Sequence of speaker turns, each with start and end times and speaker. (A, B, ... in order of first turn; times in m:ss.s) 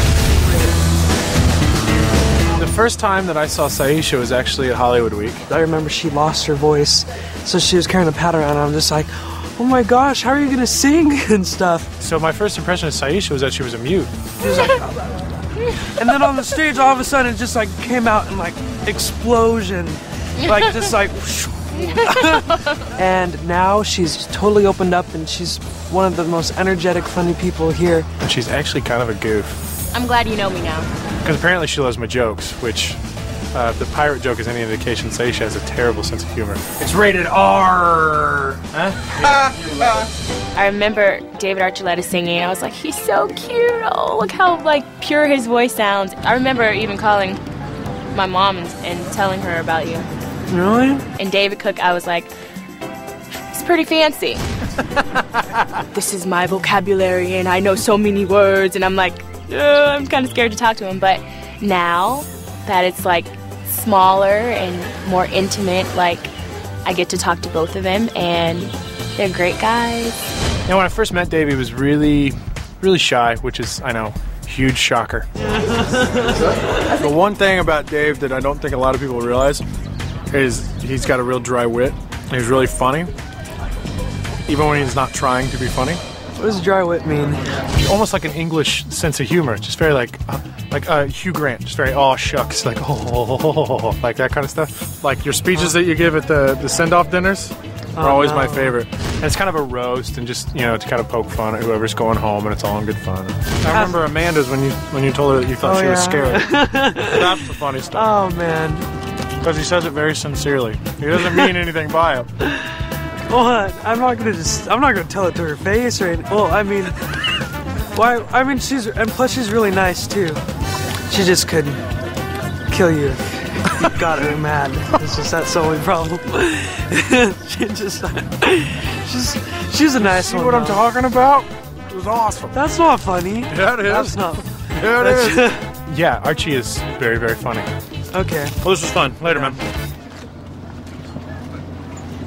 0:02.6-0:05.5 A
0:05.5-0:11.9 B
0:12.0-0:14.3 A
0:14.4-0:15.2 B
0:15.8-0:28.1 B
0:20.4-0:20.9 C
0:21.8-0:22.8 C
0:28.2-0:29.6 A
0:29.9-0:30.9 C
0:31.2-0:33.0 A
0:33.5-0:36.6 A
0:36.8-0:40.1 D
0:40.6-0:47.4 C
0:48.1-0:50.1 C
0:50.5-0:51.0 B
0:51.2-0:52.3 C
0:53.5-0:54.4 C
0:55.7-1:06.3 C
1:06.8-1:10.2 C
1:10.7-1:15.3 A
1:17.0-1:19.6 A
1:20.3-1:23.1 A
1:24.5-1:26.0 A
1:26.4-1:27.6 B
1:27.7-1:48.1 A
1:38.0-1:38.8 B
1:43.6-1:44.0 B
1:45.6-1:47.3 B
1:47.9-1:48.9 B
1:49.4-1:52.3 A
1:53.3-1:57.0 B
1:57.9-2:00.4 B
2:01.1-2:01.8 B
2:02.7-2:10.8 B
2:10.0-2:12.6 A
2:12.5-2:15.6 B
2:13.5-2:17.7 A
2:18.1-2:18.6 B
2:18.6-2:19.6 A
2:19.3-2:19.6 B